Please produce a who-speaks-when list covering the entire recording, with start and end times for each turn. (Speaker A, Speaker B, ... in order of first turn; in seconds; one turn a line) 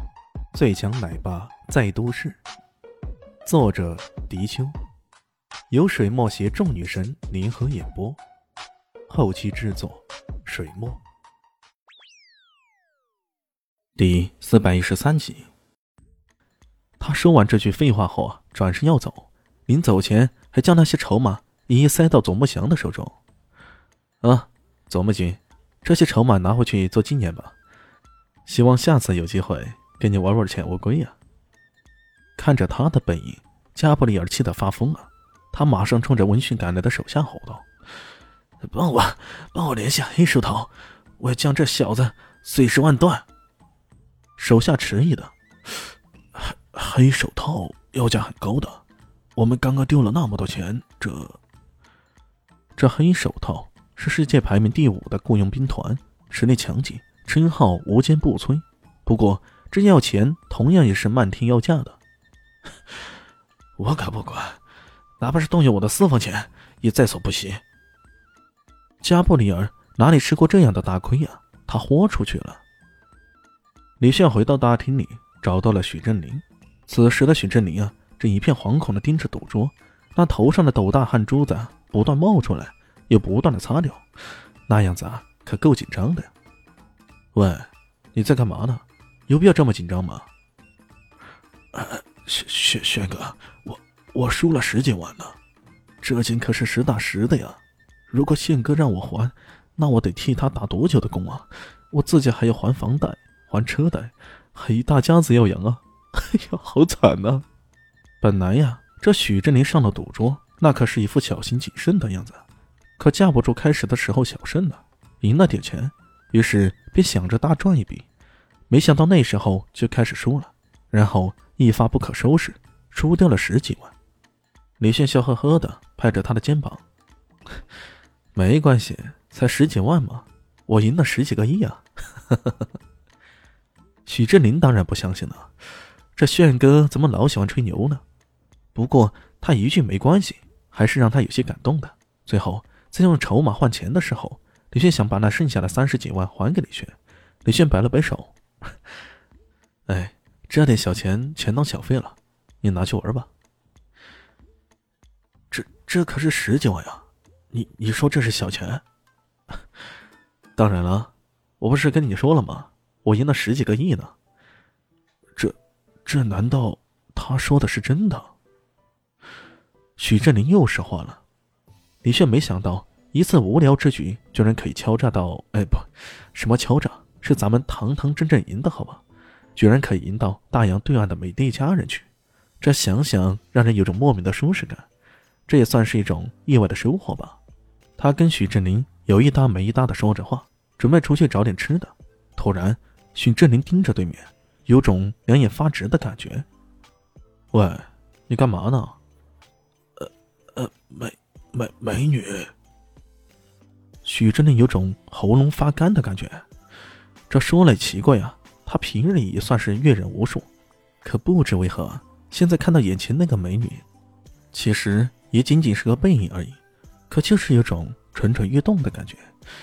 Speaker A: 0.5-2.4
Speaker A: 3.4-4.8
Speaker A: 5.7-8.2
Speaker A: 9.1-11.0
Speaker A: 14.0-15.5
Speaker A: 17.0-23.2
Speaker A: 24.2-27.5
Speaker A: 28.4-31.1
Speaker A: 32.4-37.6
Speaker A: 38.6-43.2
Speaker A: 44.4-45.8
Speaker A: 46.3-48.8
Speaker A: 49.4-51.4
Speaker A: 52.8-62.0
Speaker A: 63.8-64.6
Speaker A: 65.2-67.6
Speaker A: 69.0-72.6
Speaker A: 74.0-84.0
Speaker A: 84.7-86.3
Speaker A: 87.3-90.3
Speaker A: 91.7-95.3
Speaker A: 96.0-107.5
Speaker A: 108.2-112.4
Speaker A: 113.0-118.0
Speaker A: 118.7-123.9
Speaker A: 124.8-126.8
Speaker A: 128.3-132.6
Speaker A: 134.1-135.5
Speaker A: 136.2-138.0
Speaker A: 138.7-148.3
Speaker A: 149.9-153.3
Speaker A: 155.5-158.8
Speaker A: 160.6-164.1
Speaker A: 165.3-168.3
Speaker A: 170.0-171.2
Speaker A: 172.0-179.0
Speaker A: 179.6-182.1
Speaker A: 182.6-184.8
Speaker A: 185.5-187.4
Speaker A: 188.0-196.4
Speaker A: 197.5-199.0
Speaker A: 200.0-202.5
Speaker A: 204.0-206.4
Speaker A: 207.3-210.5
Speaker A: 211.0-213.8
Speaker A: 214.5-219.3